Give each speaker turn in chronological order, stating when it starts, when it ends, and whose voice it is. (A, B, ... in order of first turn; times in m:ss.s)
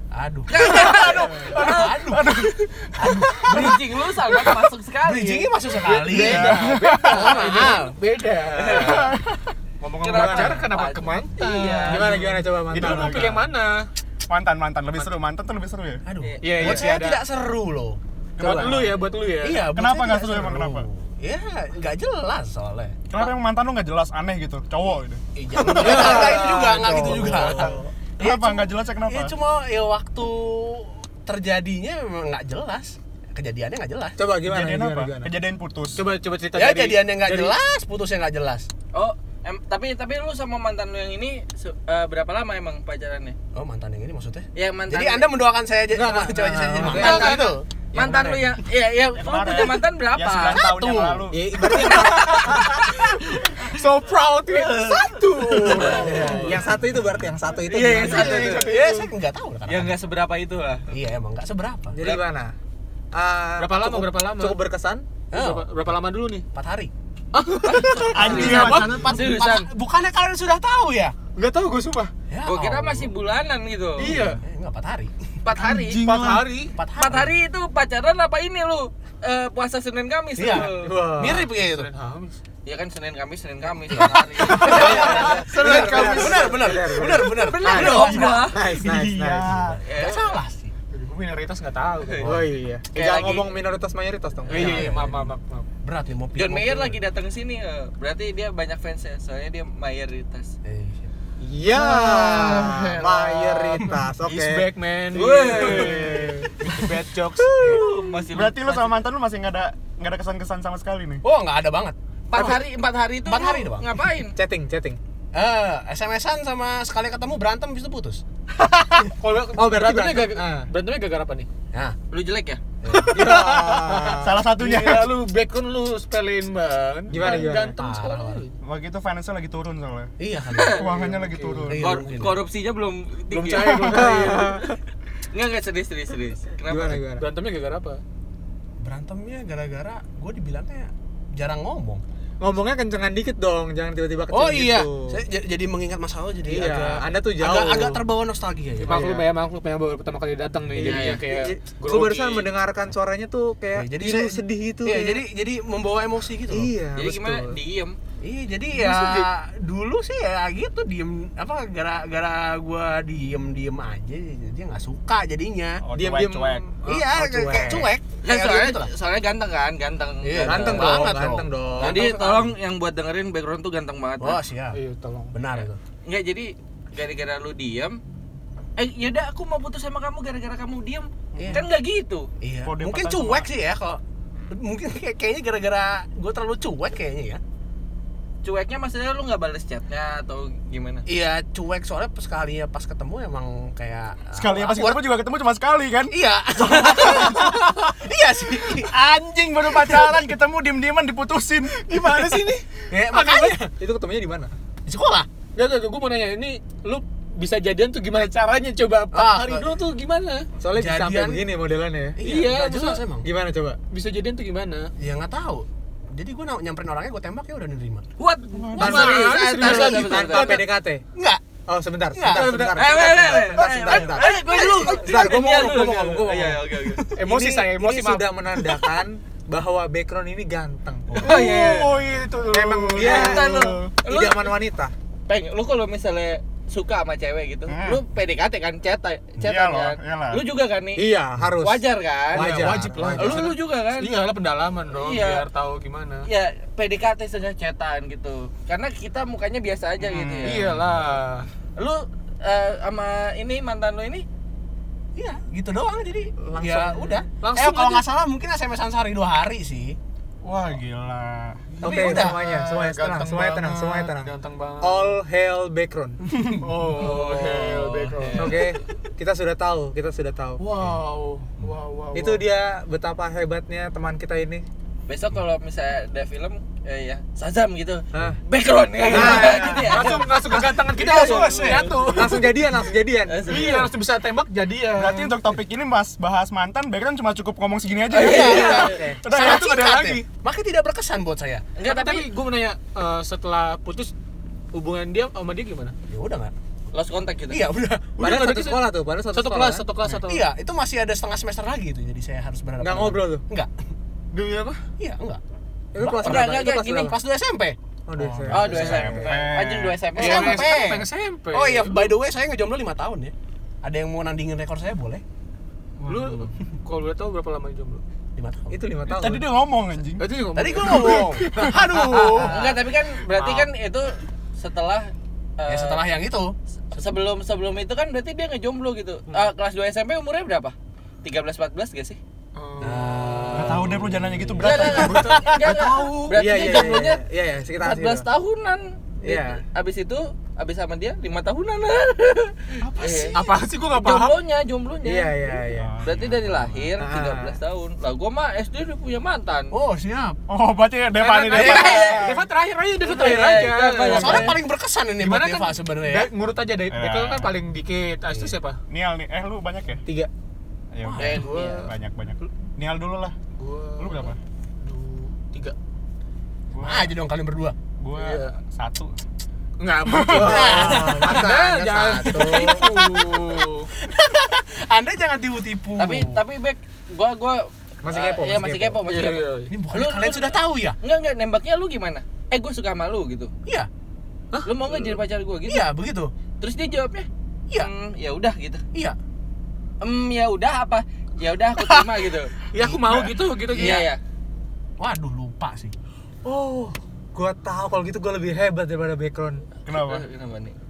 0:00.1-0:08.0 A
0:00.5-0:02.0 B
0:02.0-0:03.3 C
0:03.4-0:05.5 B
0:05.8-0:09.2 D
0:06.1-0:07.3 C
0:08.6-0:08.9 B
0:08.8-0:09.4 C
0:09.8-0:13.9 D
0:10.0-0:12.1 B
0:10.1-0:10.6 E
0:11.8-0:13.5 E
0:12.7-0:13.4 C
0:14.3-0:16.0 C
0:16.0-0:18.0 A
0:16.2-0:16.8 B
0:16.4-0:17.2 D
0:18.4-0:19.0 E
0:18.4-0:19.7 D
0:18.6-0:23.2 A
0:19.7-0:20.9 C
0:23.1-0:26.3 C
0:25.3-0:34.2 A
0:25.7-0:27.9 E
0:28.2-0:29.3 C
0:34.2-0:35.3 E
0:34.4-0:36.0 C
0:35.9-0:37.4 D
0:36.5-0:38.7 A
0:38.9-0:43.4 B
0:43.5-0:47.6 A
0:44.5-0:45.3 B
0:45.9-0:48.4 E
0:46.8-0:47.6 D
0:47.0-0:47.3 B
0:47.9-0:50.7 B
0:49.1-0:51.5 C
0:50.5-0:52.7 A
0:51.3-0:52.8 E
0:51.8-0:56.6 D
0:55.5-0:57.2 A
0:55.8-0:56.5 B
0:55.8-0:58.8 E
0:57.6-0:59.0 B
0:58.0-0:59.9 A
0:59.7-1:00.9 B
1:00.9-1:02.0 A
1:01.9-1:02.5 E
1:03.1-1:05.0 E
1:03.6-1:04.6 D
1:05.3-1:05.9 A
1:05.3-1:06.4 D
1:06.5-1:06.9 A
1:07.3-1:09.1 D
1:07.6-1:09.7 B
1:08.1-1:09.0 C
1:08.2-1:11.2 A
1:11.3-1:12.1 D
1:12.3-1:13.1 A
1:12.4-1:14.2 B
1:14.0-1:14.4 D
1:14.0-1:15.1 A
1:15.4-1:16.2 B
1:15.6-1:16.8 D
1:16.0-1:16.4 C
1:16.8-1:17.3 A
1:16.9-1:20.8 B
1:20.4-1:21.9 A
1:20.8-1:21.4 E
1:21.0-1:22.4 D
1:22.6-1:25.5 B
1:23.9-1:28.5 A
1:24.6-1:29.6 E
1:25.4-1:26.6 C
1:27.4-1:28.9 B
1:27.5-1:28.3 D
1:28.8-1:29.8 C
1:29.4-1:30.7 A
1:29.8-1:30.4 B
1:30.9-1:32.4 D
1:32.0-1:32.3 B
1:32.2-1:34.9 E
1:32.9-1:33.5 B
1:34.4-1:35.7 D
1:34.5-1:37.0 A
1:36.3-1:40.5 B
1:40.6-1:41.1 A
1:41.4-1:44.6 E
1:41.7-1:48.0 D
1:45.1-1:46.4 B
1:45.6-1:46.4 E
1:47.6-1:47.8 A
1:47.7-1:48.0 E
1:47.8-1:49.0 B
1:48.3-1:51.2 C
1:51.2-1:52.6 A
1:52.3-1:54.4 B
1:53.2-1:53.9 A
1:54.4-1:55.0 E
1:55.3-1:58.2 A
1:59.0-2:01.5 D
1:59.5-2:00.7 E
2:02.1-2:02.6 B
2:02.8-2:03.2 A
2:02.9-2:08.5 D
2:03.1-2:04.3 E
2:04.1-2:05.1 C
2:07.1-2:07.8 E
2:07.1-2:08.4 A
2:08.6-2:10.1 C
2:10.2-2:11.0 A
2:10.5-2:10.8 B
2:10.7-2:11.9 C
2:11.0-2:11.7 D
2:11.7-2:12.4 A
2:11.7-2:14.1 B
2:13.3-2:14.7 D
2:13.6-2:14.0 C
2:13.9-2:14.6 E
2:15.3-2:17.0 B
2:16.6-2:17.2 E
2:17.1-2:18.0 D
2:18.8-2:22.0 A
2:22.4-2:25.2 E
2:24.3-2:29.2 A
2:26.5-2:28.0 E
2:28.8-2:32.5 D
2:28.9-2:29.2 E
2:30.7-2:31.2 A
2:30.8-2:31.2 B
2:31.3-2:35.2 E
2:33.7-2:36.7 A
2:36.5-2:37.6 E
2:36.9-2:38.0 B
2:38.2-2:45.8 A
2:38.8-2:39.2 D
2:45.8-2:46.6 C
2:45.9-2:47.9 E
2:46.9-2:48.9 A
2:48.2-2:51.1 B
2:50.2-2:52.5 A
2:50.4-2:52.0 E
2:51.8-2:54.4 B
2:54.2-2:54.8 A
2:54.7-2:55.4 D
2:55.3-2:55.8 A
2:55.5-2:58.0 B
2:58.8-3:02.3 B
3:01.4-3:01.6 A
3:02.4-3:07.4 A
3:02.6-3:03.5 C
3:08.4-3:11.0 B
3:11.1-3:15.1 A
3:14.3-3:16.1 C
3:16.1-3:18.9 A
3:16.8-3:17.7 C
3:18.7-3:22.4 C
3:19.8-3:20.1 A
3:21.7-3:23.7 D
3:22.9-3:23.7 A
3:23.6-3:24.5 E
3:24.8-3:25.3 A
3:25.5-3:30.5 D
3:29.1-3:29.8 A
3:30.6-3:32.2 E
3:30.7-3:31.5 A
3:32.2-3:33.2 A
3:32.2-3:33.1 D
3:33.2-3:33.8 E
3:33.9-3:34.9 D
3:35.0-3:40.3 A
3:38.2-3:40.6 B
3:38.7-3:40.6 D
3:38.8-3:41.0 E
3:41.1-3:41.4 A
3:41.6-3:46.6 E
3:42.1-3:45.5 A
3:42.3-3:43.2 D
3:42.7-3:47.1 B
3:47.1-3:48.3 D
3:47.2-3:51.3 E
3:51.2-3:53.9 C
3:51.2-3:52.0 B
3:51.4-3:53.4 D
3:52.5-3:54.9 E
3:52.9-3:54.5 B
3:55.3-4:04.1 B
3:57.7-3:58.0 C
3:59.4-4:00.5 C
4:01.0-4:03.6 E
4:02.3-4:06.3 D
4:04.9-4:05.5 B
4:06.2-4:10.6 B
4:10.0-4:11.0 C
4:10.4-4:11.5 D
4:11.8-4:14.2 B
4:15.2-4:20.0 A
4:16.4-4:17.2 E
4:17.4-4:18.0 D
4:20.4-4:21.8 C
4:21.8-4:22.4 A
4:21.8-4:26.2 E
4:21.9-4:25.2 D
4:26.3-4:28.4 A
4:26.6-4:28.7 D
4:26.9-4:28.7 B
4:28.4-4:30.6 E
4:30.6-4:32.4 D
4:32.1-4:34.6 E
4:35.1-4:40.6 B
4:38.1-4:38.4 E
4:39.1-4:42.5 D
4:39.1-4:40.2 E
4:39.1-4:42.4 A
4:41.1-4:41.9 B
4:42.1-4:43.9 E
4:43.2-4:43.9 B
4:43.4-4:45.3 D
4:44.9-4:49.7 C
4:48.1-4:49.0 B
4:48.1-4:51.7 A
4:48.5-4:49.2 E
4:49.2-4:50.2 D
4:51.8-4:52.3 B
4:51.8-4:54.1 D
4:54.7-4:56.0 D
4:56.1-4:56.5 A
4:56.9-4:57.7 B
4:57.5-4:58.4 A
4:58.2-4:59.8 E
4:58.2-5:00.5 D
5:00.0-5:03.7 A
5:02.8-5:03.4 E
5:04.3-5:04.8 D
5:05.0-5:05.4 A
5:05.9-5:07.2 E
5:06.0-5:08.7 A
5:06.1-5:07.1 B
5:08.1-5:09.4 E
5:08.5-5:10.7 B
5:08.6-5:10.0 C
5:10.1-5:12.1 D
5:10.2-5:15.2 A
5:16.0-5:18.0 D
5:18.4-5:18.8 A
5:18.7-5:19.4 E
5:19.1-5:20.2 C
5:20.2-5:22.7 D
5:20.5-5:22.9 A
5:21.0-5:21.8 C
5:22.4-5:26.0 B
5:23.4-5:23.6 D
5:25.7-5:26.5 A
5:26.9-5:32.2 B
5:32.5-5:33.8 D
5:32.8-5:36.4 A
5:33.5-5:35.4 C
5:34.6-5:37.2 B
5:35.0-5:36.0 D
5:36.3-5:38.2 E
5:37.8-5:43.4 B
5:39.2-5:39.6 E
5:42.9-5:43.6 C
5:43.3-5:44.4 D
5:43.9-5:45.3 B
5:45.0-5:46.0 E
5:45.7-5:46.9 C
5:46.0-5:49.7 B
5:47.0-5:47.6 E
5:49.7-5:50.4 A
5:50.5-5:52.5 C
5:51.2-5:54.6 D
5:51.5-5:52.1 A
5:51.6-5:52.2 B
5:53.0-5:54.6 B
5:54.0-5:56.3 A
5:55.2-5:58.8 D
5:56.9-5:57.5 C
5:58.3-5:58.6 A
5:58.9-6:00.0 C
6:00.9-6:03.3 C
6:01.0-6:01.8 A
6:01.2-6:01.9 B
6:03.5-6:05.7 D
6:04.0-6:04.4 C
6:06.7-6:07.1 C
6:06.8-6:07.8 A
6:08.0-6:09.2 C
6:08.1-6:08.6 D
6:09.8-6:13.9 D
6:10.1-6:10.6 C
6:10.3-6:11.4 A
6:10.3-6:12.8 E
6:12.2-6:16.4 A
6:16.0-6:23.5 B
6:18.0-6:19.0 E
6:19.0-6:19.7 D
6:19.7-6:21.0 A
6:24.6-6:25.9 B
6:25.7-6:26.3 A
6:26.6-6:28.8 B
6:30.0-6:32.5 B
6:32.7-6:34.1 D
6:33.0-6:33.3 C
6:33.7-6:34.1 A
6:33.7-6:34.2 B
6:35.0-6:35.9 A
6:36.4-6:39.6 E
6:39.8-6:40.2 C
6:39.9-6:40.8 B